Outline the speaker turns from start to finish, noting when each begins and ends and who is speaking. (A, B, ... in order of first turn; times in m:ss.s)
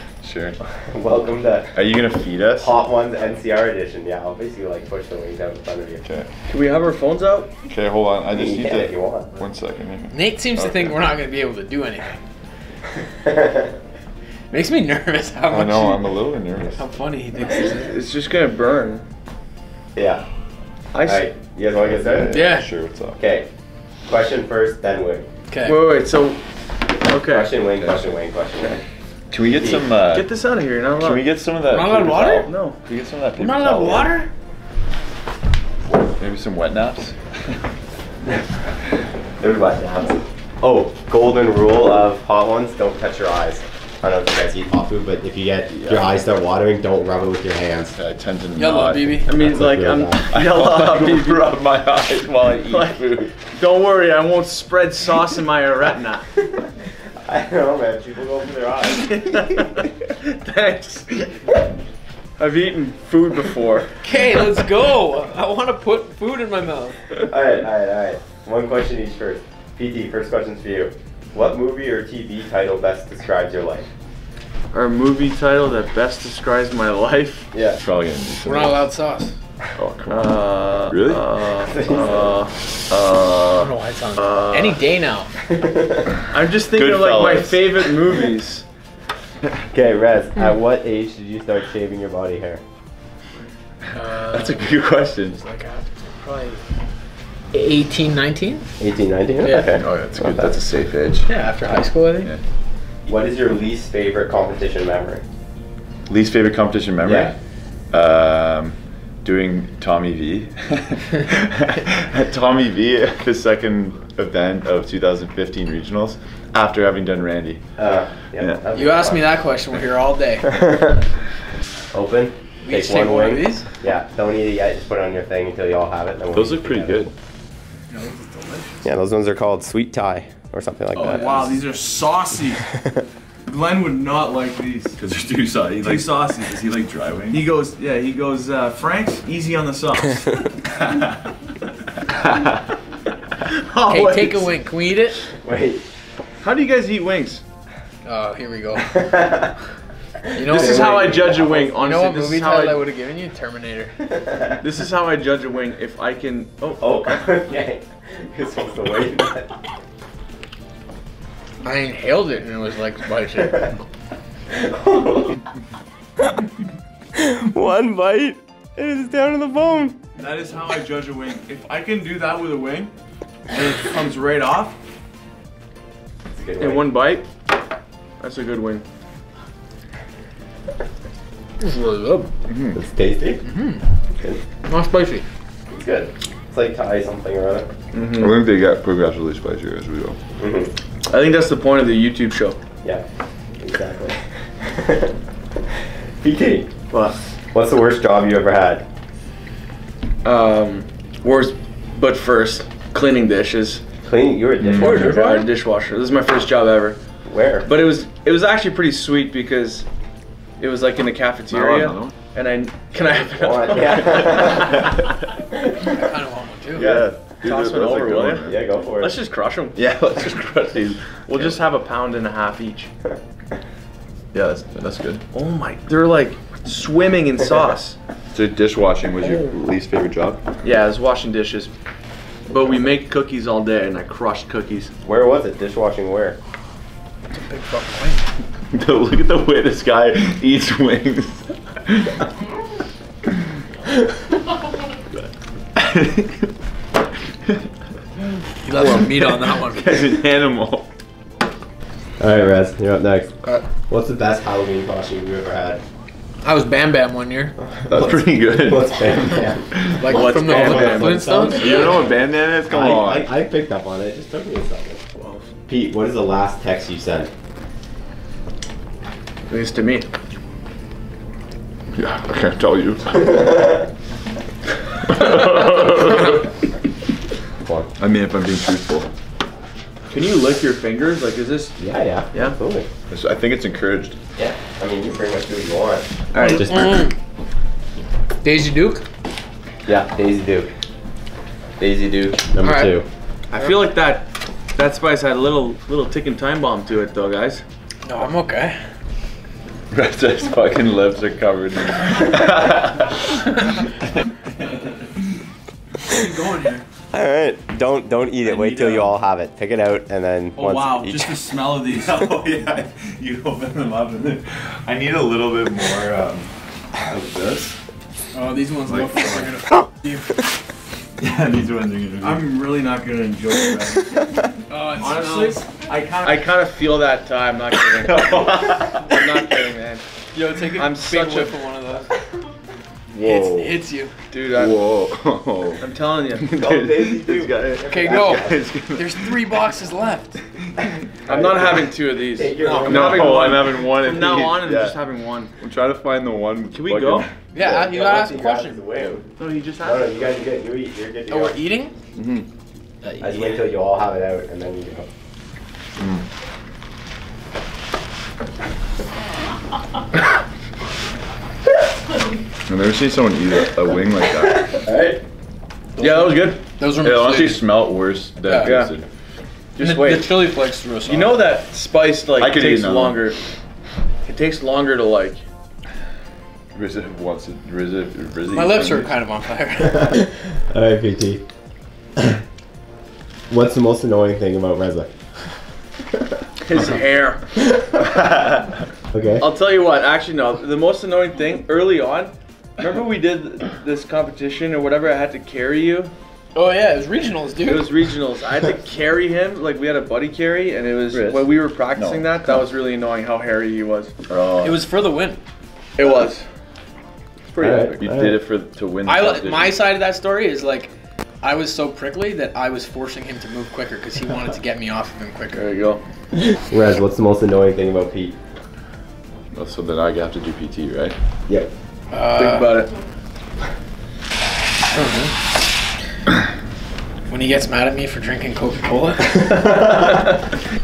0:00.2-0:00.6 A
0:00.8-0:01.7 B
0:01.7-0:02.7 A
0:02.6-0:06.0 B
0:06.5-0:07.5 C
0:07.7-0:11.0 A
0:08.3-0:09.3 B
0:10.1-0:12.1 D
0:13.2-0:13.7 B
0:14.5-0:16.1 D
0:15.5-0:16.8 A
0:16.7-0:17.9 D
0:17.8-0:19.0 C
0:19.9-0:20.2 B
0:20.9-0:21.2 C
0:21.0-0:22.3 B
0:21.8-0:23.2 A
0:22.3-0:22.7 D
0:23.2-0:23.5 B
0:24.1-0:25.3 B
0:25.5-0:25.8 D
0:25.6-0:26.4 C
0:27.0-0:27.6 C
0:27.2-0:28.8 B
0:29.3-0:30.3 A
0:30.1-0:31.2 C
0:30.9-0:34.1 A
0:31.7-0:32.5 D
0:32.5-0:32.8 C
0:33.4-0:34.3 D
0:36.1-0:37.6 A
0:39.4-0:47.9 B
0:45.7-0:46.1 A
0:47.8-0:49.4 A
0:48.6-0:49.3 D
0:49.3-0:51.6 C
0:49.4-0:50.2 B
0:50.3-0:53.3 A
0:52.6-0:56.3 C
0:57.2-0:59.6 B
0:58.8-1:01.2 C
1:02.4-1:03.9 C
1:04.0-1:07.0 D
1:07.3-1:13.9 B
1:14.7-1:17.5 C
1:17.5-1:17.8 B
1:17.8-1:18.9 A
1:18.4-1:19.3 D
1:19.8-1:21.3 A
1:20.1-1:22.5 C
1:21.6-1:22.3 B
1:22.9-1:23.7 A
1:23.6-1:25.3 D
1:24.2-1:24.8 C
1:25.5-1:26.1 B
1:26.3-1:28.6 C
1:26.7-1:28.1 A
1:29.7-1:32.6 B
1:33.8-1:35.4 A
1:33.9-1:36.6 D
1:37.5-1:38.6 D
1:38.8-1:40.5 B
1:39.4-1:39.7 D
1:39.7-1:41.3 A
1:41.3-1:42.3 D
1:43.0-1:45.2 B
1:46.1-1:47.4 A
1:47.0-1:47.3 B
1:47.9-1:57.6 A
1:57.8-1:59.3 B
1:58.7-2:00.5 D
2:00.5-2:01.0 B
2:01.9-2:07.0 B
2:02.6-2:03.7 D
2:06.3-2:07.1 A
2:07.9-2:08.8 D
2:08.8-2:11.4 B
2:11.0-2:11.5 A
2:11.0-2:12.7 C
2:13.4-2:15.0 C
2:15.0-2:17.4 A
2:15.8-2:16.6 C
2:17.3-2:20.5 C
2:22.2-2:22.6 A
2:23.4-2:24.5 C
2:23.9-2:25.2 D
2:25.4-2:25.8 B
2:26.4-2:27.4 C
2:28.0-2:28.9 D
2:28.8-2:29.5 B
2:30.2-2:31.4 B
2:30.3-2:34.0 D
2:30.4-2:32.8 C
2:34.1-2:34.6 B
2:34.6-2:37.4 C
2:36.8-2:39.5 B
2:41.6-2:43.8 D
2:44.6-2:45.4 B
2:47.1-2:50.0 B
2:50.2-2:52.9 C
2:53.5-2:54.8 C
2:56.3-2:56.9 B
2:56.6-2:57.2 C
2:58.2-2:58.8 C
3:01.6-3:02.3 D
3:02.5-3:02.8 A
3:02.7-3:03.4 B
3:03.4-3:03.8 D
3:04.6-3:05.2 D
3:05.7-3:07.7 B
3:07.9-3:08.3 C
3:08.1-3:10.2 A
3:10.4-3:10.7 B
3:11.0-3:12.6 C
3:13.6-3:15.1 B
3:16.2-3:16.7 B
3:16.9-3:17.2 C
3:17.5-3:18.8 B
3:20.2-3:23.8 C
3:24.0-3:25.2 B
3:24.6-3:25.2 A
3:24.7-3:27.0 C
3:24.8-3:25.5 D
3:27.2-3:27.7 B
3:27.6-3:29.8 C
3:30.6-3:34.9 C
3:31.5-3:32.1 A
3:33.3-3:34.8 B
3:35.8-3:36.9 D
3:36.7-3:38.7 A
3:36.8-3:37.1 B
3:37.4-3:40.4 C
3:38.4-3:39.1 B
3:39.7-3:41.6 A
3:41.1-3:42.9 C
3:44.3-3:45.2 A
3:45.3-3:48.0 C
3:48.3-3:50.4 A
3:50.6-3:51.7 C
3:52.5-3:54.9 C
3:55.0-3:56.4 B
3:57.3-3:58.2 D
3:58.7-4:02.2 A
4:05.7-4:06.5 A
4:08.6-4:10.0 D
4:08.7-4:10.9 A
4:12.2-4:13.3 B
4:13.9-4:15.8 B
4:16.4-4:17.5 D
4:17.7-4:22.0 B
4:17.9-4:21.0 A
4:20.0-4:22.1 D
4:20.1-4:21.8 C
4:21.5-4:23.3 A
4:22.7-4:25.0 B
4:25.2-4:25.4 C
4:25.7-4:27.3 B
4:29.5-4:30.1 C
4:31.9-4:33.7 A
4:35.0-4:36.4 A
4:38.0-4:39.1 A
4:40.1-4:41.8 C
4:41.8-4:42.9 B
4:43.1-4:44.2 A
4:44.4-4:46.7 B
4:46.3-4:46.7 C
4:46.4-4:46.6 A
4:46.7-4:47.1 D
4:48.4-4:49.0 D
4:49.8-4:50.7 B
4:51.8-4:53.0 B
4:52.6-4:53.0 D
4:53.5-4:57.6 C
4:58.0-4:58.8 D
4:59.9-5:05.4 A
5:06.0-5:06.8 D
5:07.1-5:11.4 B
5:08.4-5:09.1 A
5:10.6-5:12.2 C
5:11.8-5:17.8 A
5:18.3-5:20.5 D
5:18.9-5:19.5 A
5:21.2-5:22.5 A
5:22.2-5:24.2 C
5:24.7-5:26.4 D
5:25.0-5:30.0 C
5:28.0-5:29.2 A
5:30.3-5:32.1 D
5:30.8-5:31.6 C
5:33.1-5:33.8 A
5:33.2-5:34.1 D
5:34.3-5:34.9 C
5:34.5-5:39.3 A
5:35.8-5:37.0 C
5:36.6-5:38.6 B
5:37.9-5:40.4 D
5:41.3-5:45.5 C
5:41.3-5:43.5 B
5:42.6-5:43.1 D
5:42.8-5:45.0 A
5:45.6-5:47.3 A
5:46.7-5:47.3 C
5:47.5-5:48.8 D
5:47.6-5:49.3 B
5:49.4-5:50.4 C
5:49.8-5:51.6 B
5:51.3-5:51.9 D
5:52.2-5:52.5 A
5:53.0-5:53.7 D
5:53.2-5:55.1 B
5:56.0-5:56.2 A
6:02.7-6:04.8 A
6:04.7-6:05.2 B
6:06.0-6:07.8 D
6:06.0-6:06.6 C
6:06.9-6:09.1 A
6:08.4-6:08.9 D
6:08.6-6:08.9 C
6:09.8-6:10.4 C
6:09.8-6:11.5 D
6:11.0-6:13.4 C
6:12.4-6:13.3 A
6:14.2-6:15.4 C
6:16.7-6:19.2 A
6:18.5-6:20.3 D
6:19.8-6:21.4 B
6:23.5-6:25.2 B
6:26.6-6:27.4 C
6:29.1-6:29.5 B
6:29.4-6:36.1 C
6:36.5-6:38.0 D
6:37.6-6:44.1 C
6:41.1-6:42.6 A
6:44.3-6:44.8 A
6:44.6-6:45.4 D
6:46.0-6:46.4 C
6:47.5-6:48.2 C
6:47.6-6:48.3 B
6:48.0-6:49.8 A
6:49.0-6:55.7 D
6:55.5-6:56.0 C
6:56.7-6:58.3 B
6:59.5-7:01.1 A
7:02.1-7:02.8 D
7:02.4-7:02.9 C
7:04.9-7:05.3 D
7:07.3-7:09.5 D
7:09.4-7:10.2 B